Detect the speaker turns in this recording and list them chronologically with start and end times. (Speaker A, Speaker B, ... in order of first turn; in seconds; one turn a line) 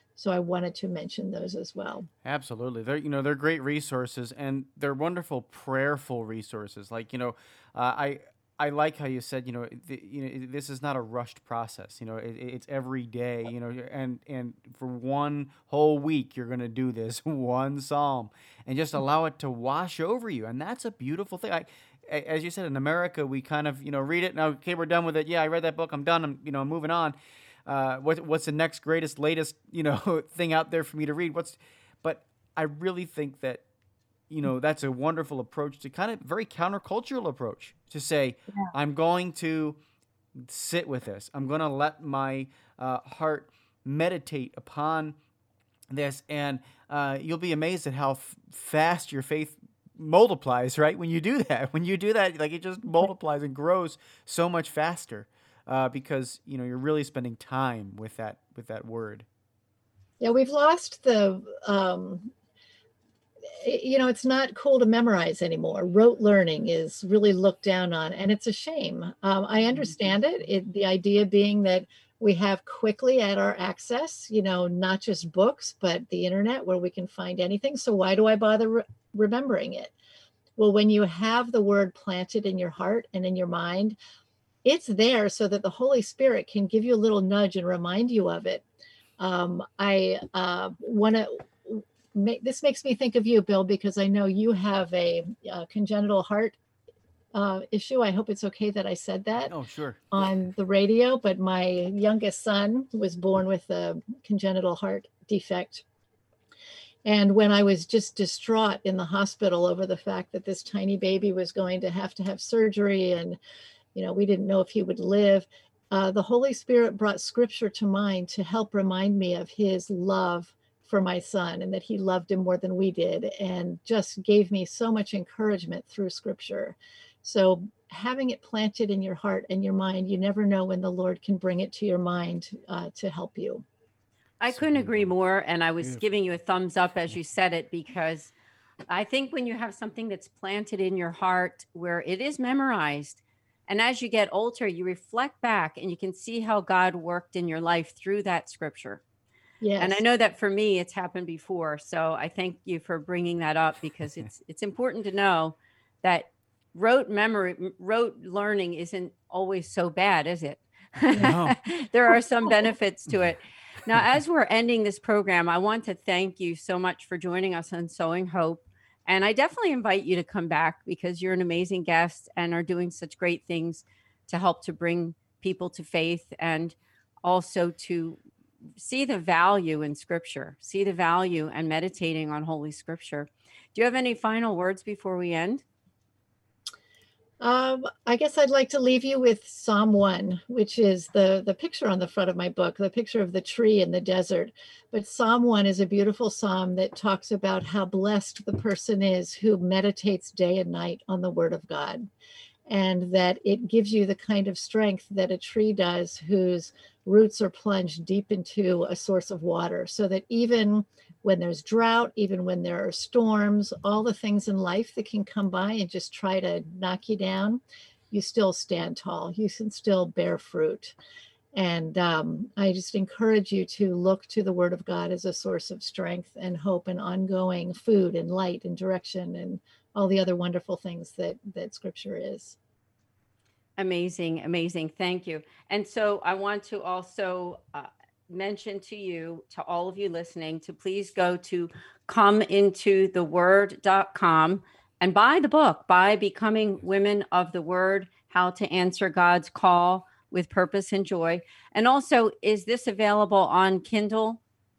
Speaker A: 0.2-2.1
Speaker B: 2.2-33.6
Speaker B: 34.3-39.8
Speaker B: 40.4-45.2
Speaker B: 45.9-59.2
Speaker A: 60.2-62.3
Speaker A: 63.5-79.9
Speaker A: 80.6-84.0
Speaker A: 84.6-88.7
Speaker A: 89.2-96.6
Speaker A: 97.3-99.5
Speaker B: 99.5-100.0
Speaker A: 100.1-105.8
Speaker A: 107.0-113.4
Speaker A: 113.9-133.7
Speaker C: 134.4-138.3
Speaker B: 134.5-135.1
Speaker C: 138.9-149.0
Speaker A: 149.6-150.0
Speaker C: 149.8-178.2
Speaker B: 161.2-161.6
Speaker C: 178.8-185.6
Speaker A: 187.4-202.1
Speaker A: 202.7-221.0
Speaker A: 221.5-232.6
Speaker C: 233.8-254.4